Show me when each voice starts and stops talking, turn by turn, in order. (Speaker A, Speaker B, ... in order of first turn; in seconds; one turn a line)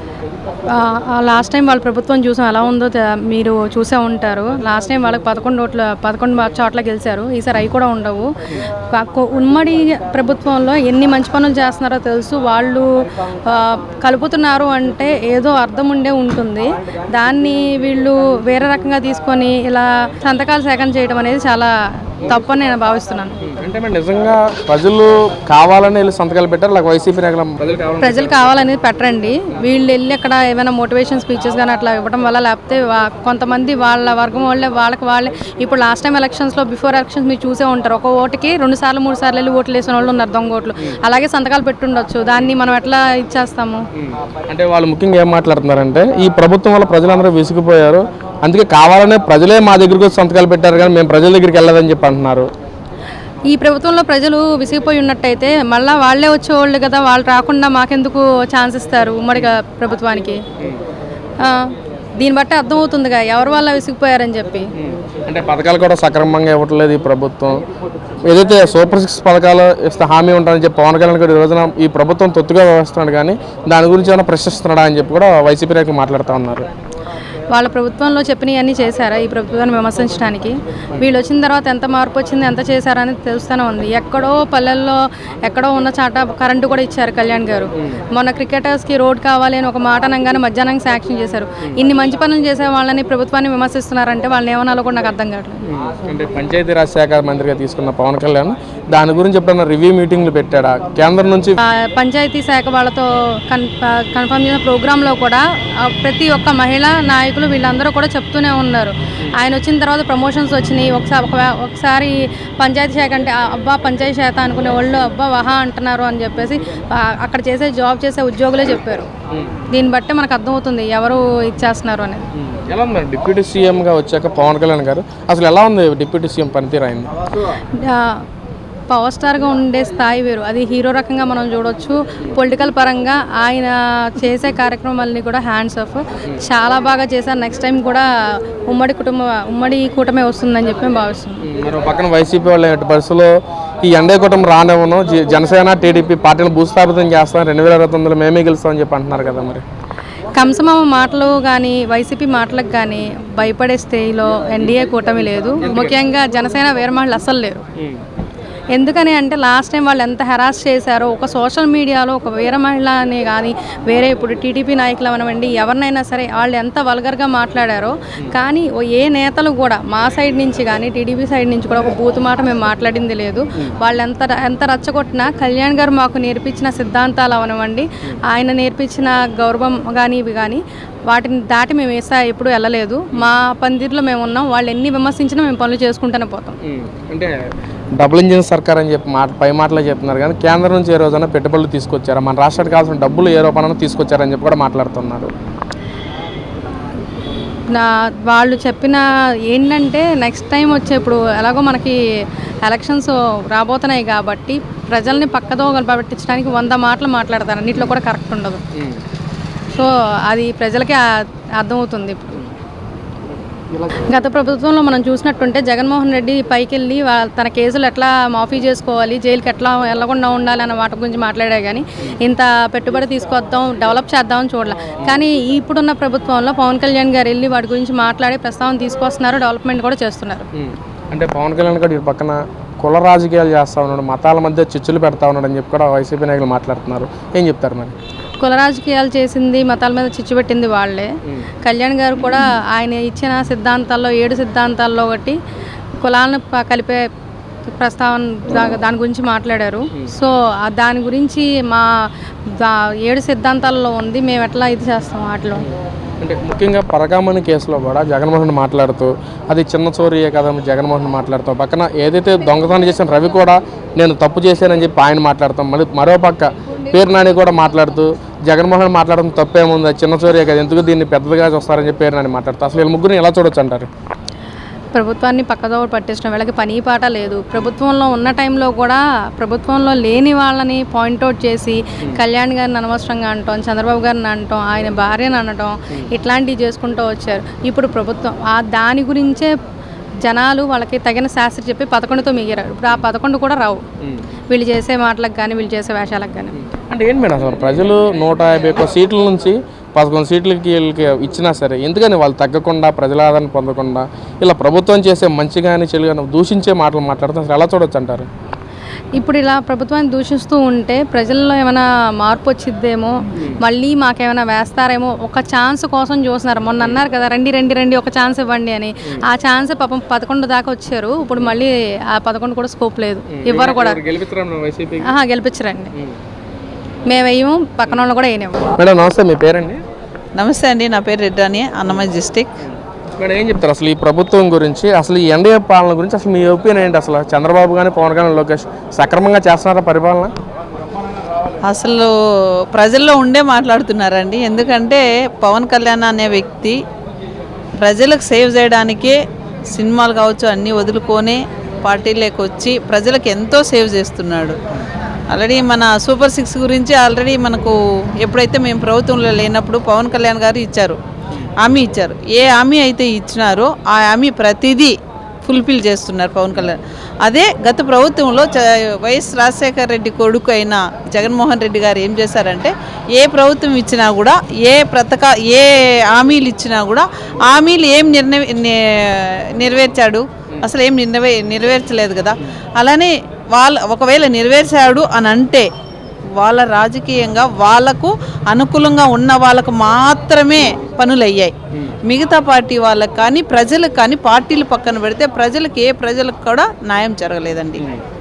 Speaker A: 0.7-8.3
Speaker A: 8.9-12.9
Speaker A: 13.4-21.7
Speaker A: 22.3-23.4
Speaker B: 23.4-28.6
Speaker A: 28.0-43.8
Speaker B: 44.0-52.5
Speaker A: 53.5-60.4
Speaker A: 61.4-64.7
Speaker B: 64.8-67.6
Speaker B: 68.2-76.7
Speaker A: 77.5-95.6
Speaker B: 95.6-101.6
Speaker A: 101.6-119.1
Speaker A: 119.7-122.2
Speaker B: 122.4-127.1
Speaker A: 127.8-128.2
Speaker A: 128.9-138.1
Speaker A: 138.7-141.4
Speaker B: 141.4-149.6
Speaker A: 150.3-157.6
Speaker B: 155.6-156.0
Speaker A: 158.7-186.6
Speaker B: 186.6-187.3
Speaker B: 188.0-195.3
Speaker A: 197.7-202.0
Speaker A: 202.6-208.6
Speaker A: 209.7-211.0
Speaker A: 211.6-212.4
Speaker B: 213.7-214.0
Speaker A: 213.9-230.4
Speaker B: 230.5-237.9
Speaker A: 238.4-241.1
Speaker A: 241.6-245.4
Speaker A: 246.0-247.0
Speaker A: 247.7-251.9
Speaker A: 252.5-255.6
Speaker B: 255.6-273.9
Speaker A: 274.9-289.5
Speaker A: 290.2-293.8
Speaker A: 294.5-296.5
Speaker B: 296.5-308.3
Speaker A: 309.2-324.0
Speaker B: 323.3-325.1
Speaker A: 325.0-325.9
Speaker A: 327.1-328.7
Speaker B: 328.7-329.8
Speaker C: 330.4-332.5
Speaker B: 332.6-340.3
Speaker C: 341.7-346.8
Speaker C: 347.8-349.2
Speaker C: 349.7-354.6
Speaker C: 355.3-361.0
Speaker C: 361.6-385.7
Speaker C: 386.4-391.5
Speaker C: 392.0-397.8